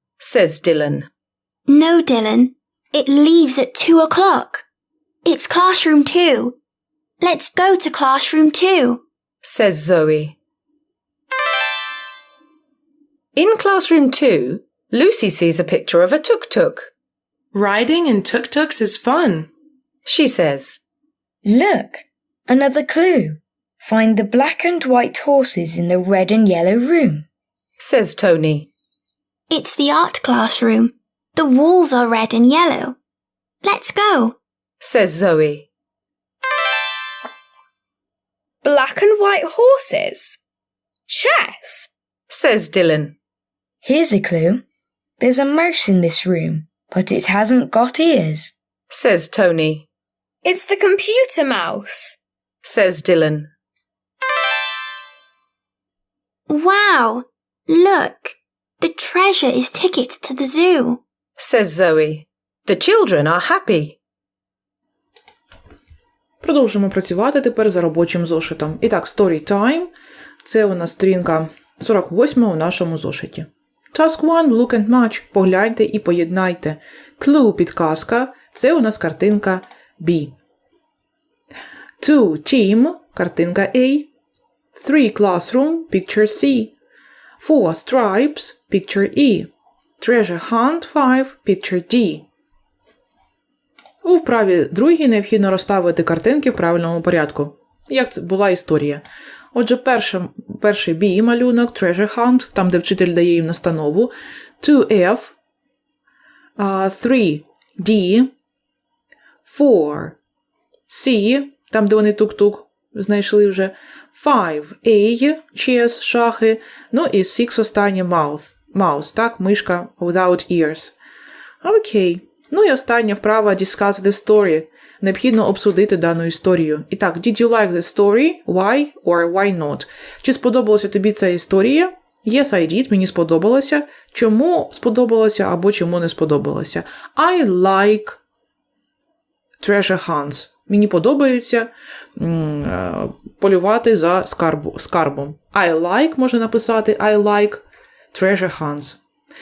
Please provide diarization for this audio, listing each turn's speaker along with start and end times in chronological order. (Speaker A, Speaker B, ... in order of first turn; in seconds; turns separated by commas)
Speaker A: 0.2-1.1, Speaker B: 1.7-4.6, Speaker B: 5.2-6.5, Speaker B: 7.2-9.0, Speaker A: 9.4-10.3, Speaker A: 13.3-16.9, Speaker C: 17.5-19.5, Speaker A: 20.1-20.8, Speaker D: 21.4-27.2, Speaker A: 27.8-28.7, Speaker B: 29.5-33.0, Speaker B: 33.6-34.4, Speaker A: 34.8-35.7, Speaker E: 38.6-40.4, Speaker E: 41.1-41.9, Speaker A: 42.3-43.1, Speaker D: 43.8-44.6, Speaker D: 45.2-48.5, Speaker A: 48.9-49.9, Speaker E: 50.4-52.2, Speaker A: 52.6-53.5, Speaker B: 56.5-61.0, Speaker A: 61.4-64.0, Speaker F: 66.4-69.9, Speaker F: 70.4-80.3, Speaker F: 82.0-84.1, Speaker F: 84.8-86.7, Speaker F: 87.4-89.5, Speaker F: 90.0-92.2, Speaker F: 94.0-99.0, Speaker F: 99.5-105.3, Speaker F: 106.6-108.3, Speaker F: 109.4-110.2, Speaker F: 110.9-120.9, Speaker F: 121.6-138.2, Speaker F: 139.6-149.0